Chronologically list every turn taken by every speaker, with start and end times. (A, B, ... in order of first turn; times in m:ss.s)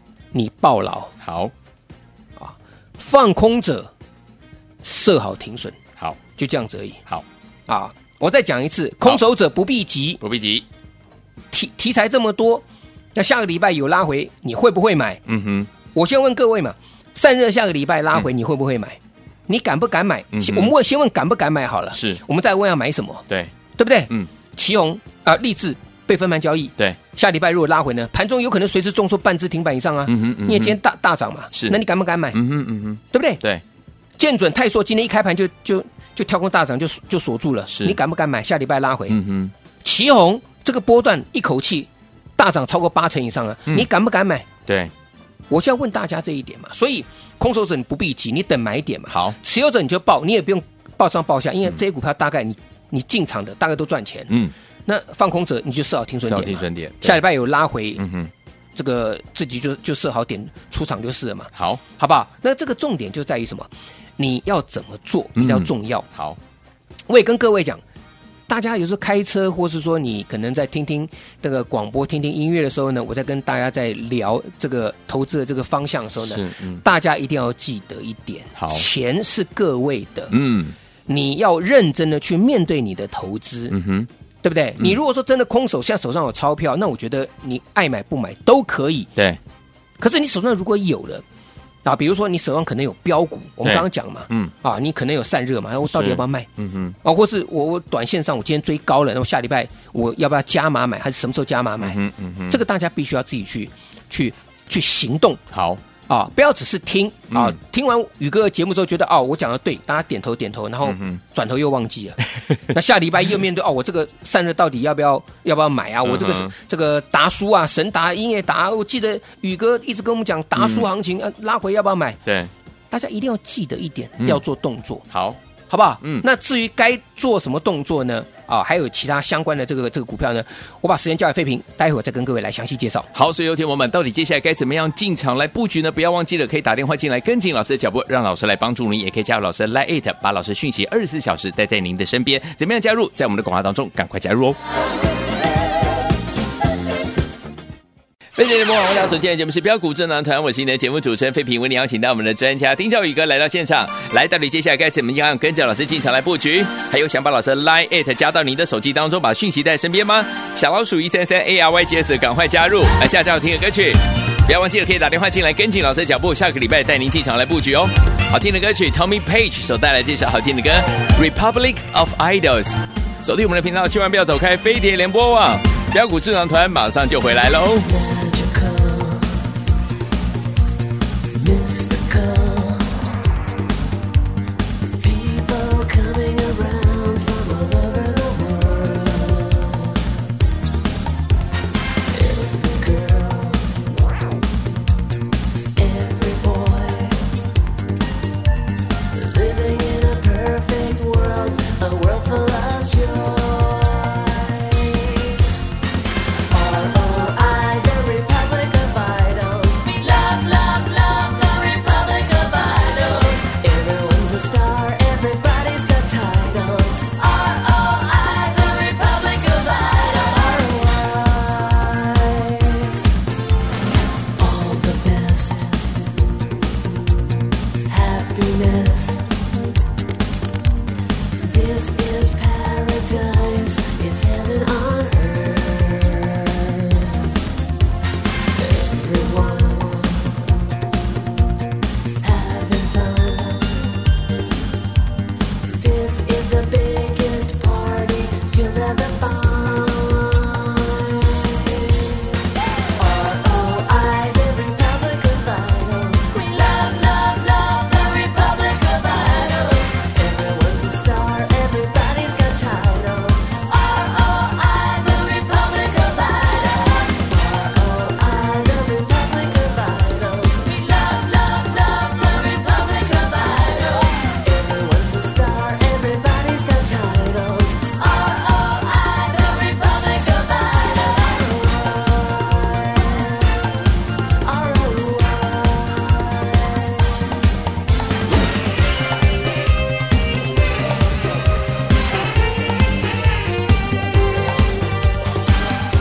0:00.3-0:01.1 A
0:01.2-0:01.5 B
0:02.4-0:03.9 A
0:04.8-0:05.8 A
0:06.4-0:07.0 A
0:07.7-0:10.2 A
0:10.2-0:10.6 B
0:11.5-0:12.6 A
0:13.1-0:15.2 A
0:15.3-0:15.7 B
0:15.9-0:23.2 A
0:20.3-0:20.7 B
0:21.9-0:22.2 B
0:23.8-0:32.4 A
0:30.1-0:30.8 B
0:32.3-0:33.6 B
0:33.1-0:33.4 A
0:34.2-0:39.2 A
0:37.7-0:38.0 B
0:39.1-0:39.5 B
0:39.8-0:44.5 A
0:45.5-0:54.3 A
0:49.1-0:49.4 B
0:54.8-0:58.0 A
0:56.2-0:57.2 B
0:58.0-0:58.3 B
0:58.7-1:06.0 A
1:01.5-1:01.8 B
1:05.4-1:06.4 B
1:07.1-1:07.8 A
1:08.5-1:20.3 A
1:16.2-1:16.8 B
1:18.6-1:18.8 B
1:20.3-1:20.8 B
1:21.1-1:23.7 A
1:23.7-1:24.1 B
1:24.4-1:29.1 A
1:30.0-1:31.2 A
1:31.8-1:36.5 A
1:33.6-1:34.5 B
1:35.9-1:36.9 B
1:37.0-1:45.4 A
1:41.8-1:42.6 B
1:45.5-1:45.8 B
1:46.1-2:02.2 A
1:47.3-1:47.6 B
1:50.8-1:51.2 B
1:56.0-1:56.5 B
2:00.6-2:00.8 B
2:02.2-2:02.5 B
2:02.9-2:05.0 A
2:05.1-2:05.4 B
2:05.7-2:13.1 A
2:13.1-2:24.6 B
2:28.3-2:57.9 B
2:57.9-2:59.3 C
3:01.4-3:03.0 C
3:05.0-3:09.9 C
3:12.1-3:13.8 C
3:15.8-3:17.2 C
3:19.2-3:25.4 C
3:26.5-3:42.9 C
3:26.9-3:27.2 A
3:29.0-3:29.4 A
3:44.4-3:46.0 C
3:47.9-3:49.3 C
3:51.4-3:57.2 C
3:52.0-3:52.3 A
3:53.8-3:54.5 A
3:58.6-4:00.5 C
4:02.2-4:03.8 C
4:05.8-4:06.1 A
4:05.8-4:11.9 C
4:13.0-4:42.6 C
4:27.5-4:28.2 A
4:34.4-4:37.3 A
4:40.2-4:40.5 A
4:44.5-4:45.7 A
4:44.9-4:46.4 C